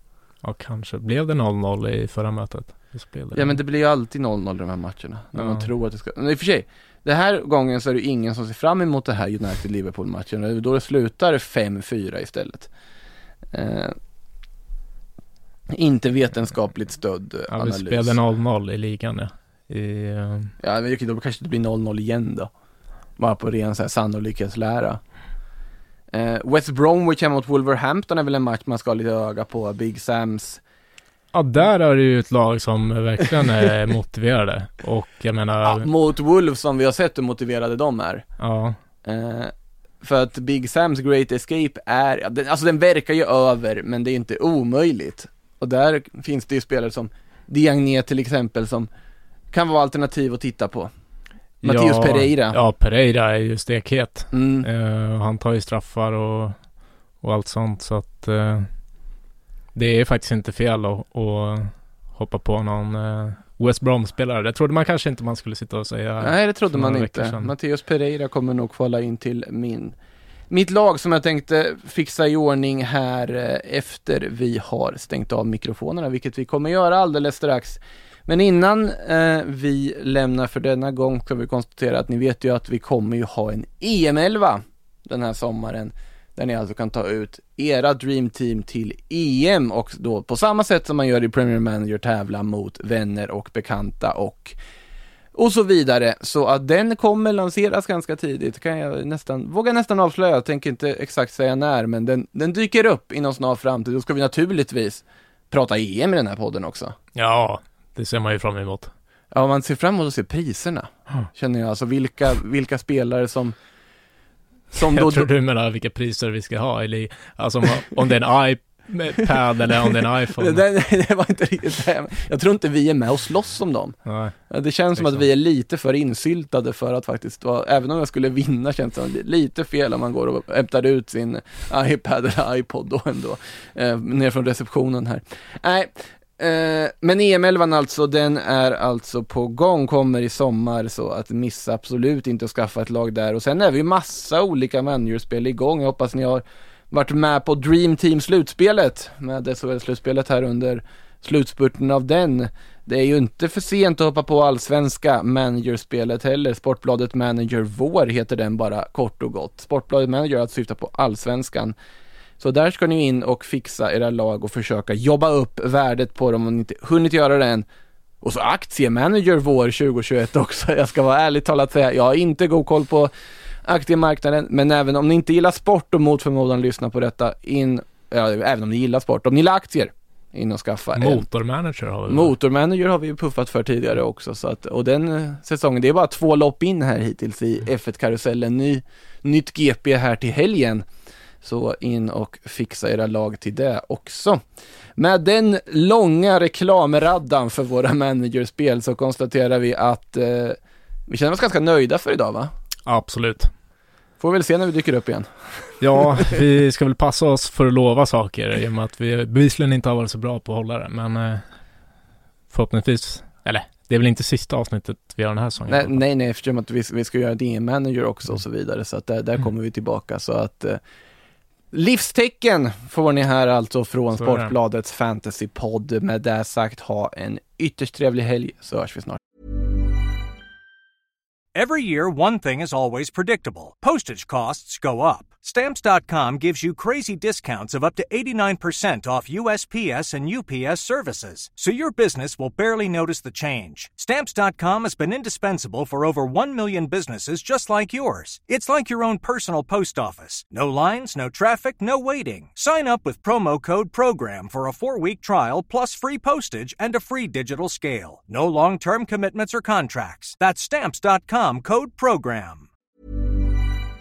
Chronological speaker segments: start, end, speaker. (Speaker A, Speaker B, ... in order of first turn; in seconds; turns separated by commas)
Speaker A: 0.4-3.6, Speaker B: 3.3-12.7, Speaker A: 5.4-5.7, Speaker B: 13.5-13.9, Speaker B: 15.7-18.2, Speaker A: 17.5-20.5, Speaker B: 20.6-22.5, Speaker B: 23.2-25.0, Speaker B: 26.1-30.6, Speaker A: 31.3-35.9, Speaker B: 35.6-38.2, Speaker A: 38.4-38.8, Speaker B: 39.0-48.9, Speaker B: 49.5-50.9, Speaker B: 51.6-52.6, Speaker A: 51.6-56.6, Speaker B: 54.3-54.7, Speaker A: 57.2-58.7, Speaker A: 59.8-67.5, Speaker B: 66.2-70.0, Speaker B: 70.5-94.6, Speaker B: 95.3-107.0, Speaker A: 107.2-108.9, Speaker B: 109.3-113.5, Speaker B: 114.7-115.3, Speaker A: 114.9-120.6, Speaker B: 120.4-124.0, Speaker A: 124.1-124.3, Speaker B: 124.5-161.8, Speaker A: 125.0-125.2, Speaker B: 162.4-167.7, Speaker B: 168.2-173.1, Speaker B: 173.6-181.3, Speaker A: 181.0-182.3, Speaker B: 182.1-190.8, Speaker B: 191.4-194.4, Speaker B: 195.0-202.5, Speaker A: 202.9-203.5, Speaker B: 204.2-206.4, Speaker A: 205.8-211.4, Speaker A: 212.5-216.0, Speaker B: 215.7-220.8, Speaker B: 221.7-229.2, Speaker A: 224.2-224.5, Speaker C: 231.5-262.7